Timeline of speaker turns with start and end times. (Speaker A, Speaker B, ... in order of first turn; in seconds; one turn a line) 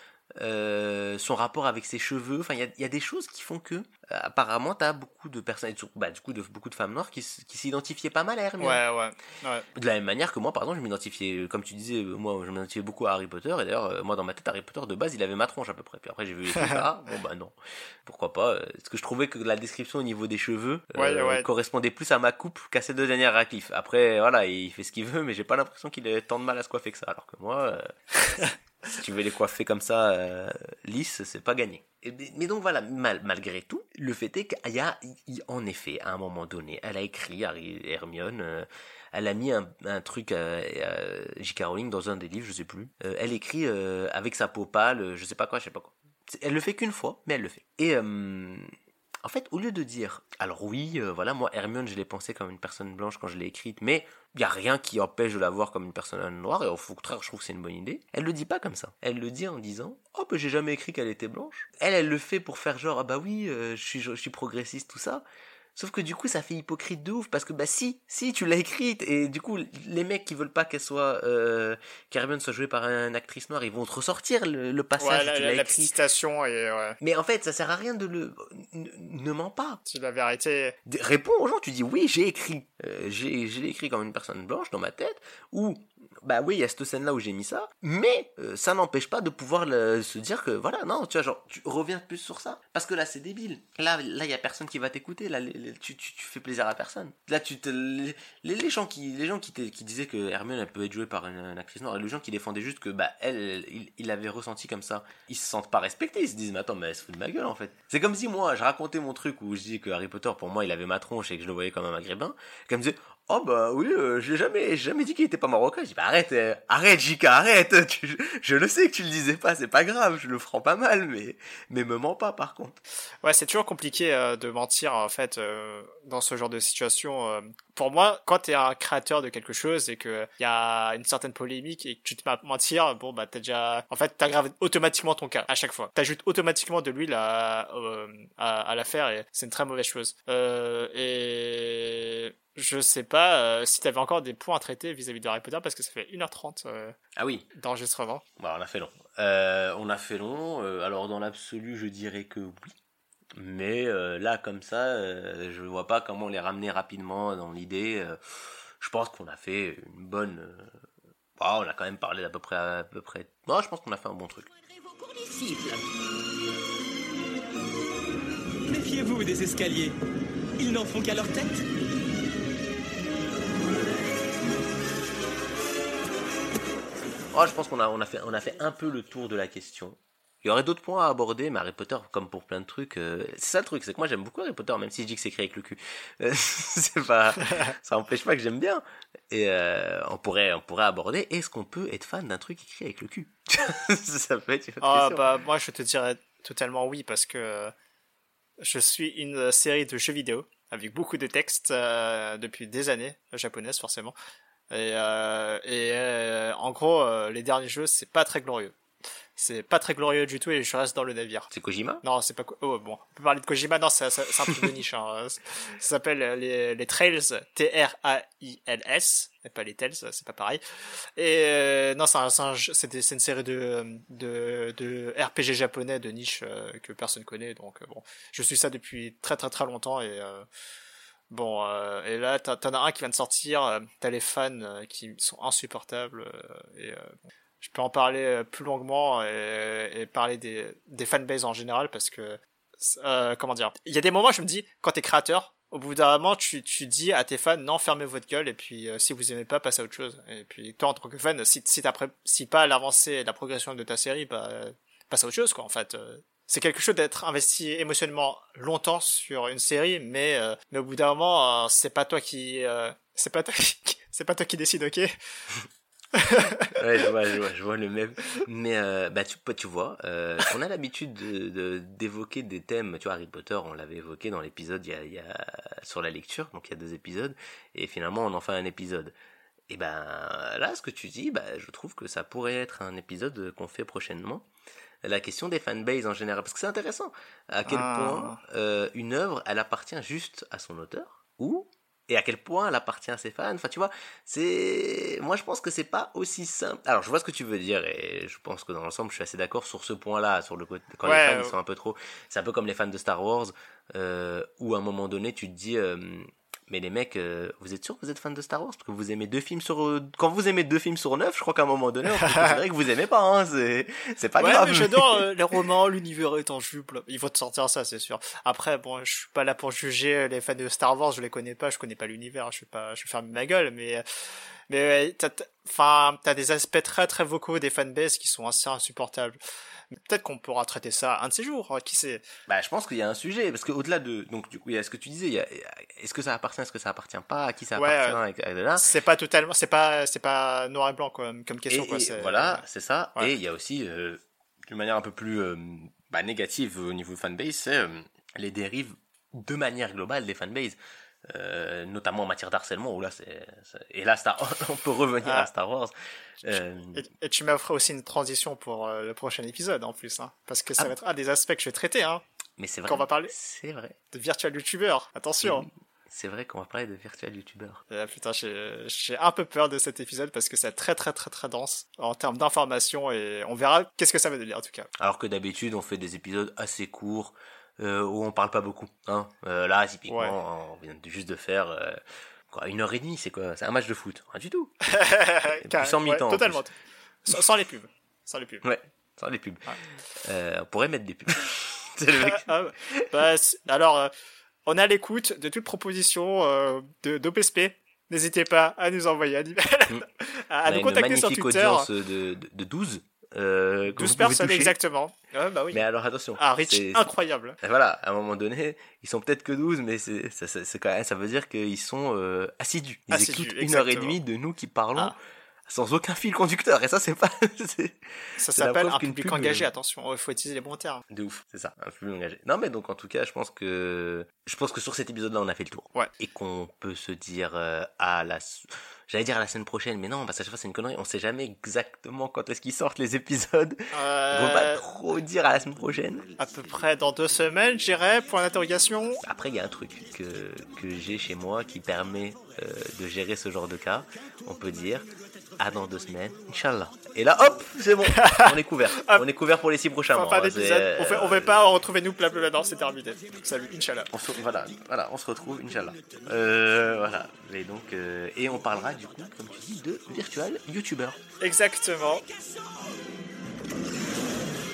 Speaker A: 0.4-8.8
Speaker B: 8.6-9.7
Speaker A: 9.8-48.7
Speaker B: 16.6-16.8
Speaker B: 20.9-21.5
Speaker A: 49.2-65.2
Speaker A: 65.8-76.0
Speaker B: 75.0-77.0
Speaker A: 77.0-79.8
Speaker B: 79.9-80.8
Speaker A: 80.9-122.8
Speaker B: 123.2-146.9
Speaker A: 147.2-147.4
Speaker B: 147.5-148.2
Speaker A: 148.4-152.8
Speaker A: 153.4-158.2
Speaker A: 158.8-160.7
Speaker A: 161.4-164.5
Speaker C: 164.7-165.9
Speaker C: 168.7-170.0
Speaker C: 170.6-171.7
Speaker A: 177.3-195.3
Speaker B: 194.8-197.7
Speaker B: 198.6-204.2
Speaker B: 204.7-208.8
Speaker B: 209.4-211.5
Speaker A: 211.5-212.0
Speaker B: 212.0-220.6
Speaker B: 221.2-230.5
Speaker B: 231.3-265.1
Speaker B: 266.1-266.7
Speaker A: 266.7-279.1
Speaker A: 279.7-284.5
Speaker A: 285.0-315.3
Speaker B: 287.7-288.4
Speaker B: 301.0-301.6
Speaker B: 314.4-324.0
Speaker B: 324.7-329.4
Speaker B: 329.9-332.2
Speaker A: 332.5-338.9
Speaker B: 337.8-338.2
Speaker B: 338.8-342.6
Speaker A: 341.7-357.1
Speaker B: 355.2-355.5
Speaker B: 356.5-362.2
Speaker A: 362.6-363.9
Speaker B: 362.9-363.3
Speaker B: 364.1-365.7
Speaker A: 365.4-367.8
Speaker B: 367.9-374.9
Speaker A: 375.0-384.7
Speaker B: 380.1-380.4
Speaker B: 384.9-386.7
Speaker A: 385.4-386.6
Speaker B: 387.2-388.6
Speaker A: 388.6-393.1
Speaker B: 392.2-394.1
Speaker B: 394.7-401.9
Speaker A: 400.6-404.8
Speaker B: 403.9-405.8
Speaker A: 405.7-407.1
Speaker B: 406.4-407.6
Speaker A: 407.6-415.1
Speaker B: 413.1-414.2
Speaker A: 415.7-419.7
Speaker B: 418.4-421.0
Speaker A: 421.1-436.3
Speaker B: 433.9-434.8
Speaker B: 436.4-439.2
Speaker A: 439.2-451.6
Speaker B: 448.2-449.2
Speaker B: 450.1-454.1
Speaker A: 454.1-461.2
Speaker B: 461.4-462.2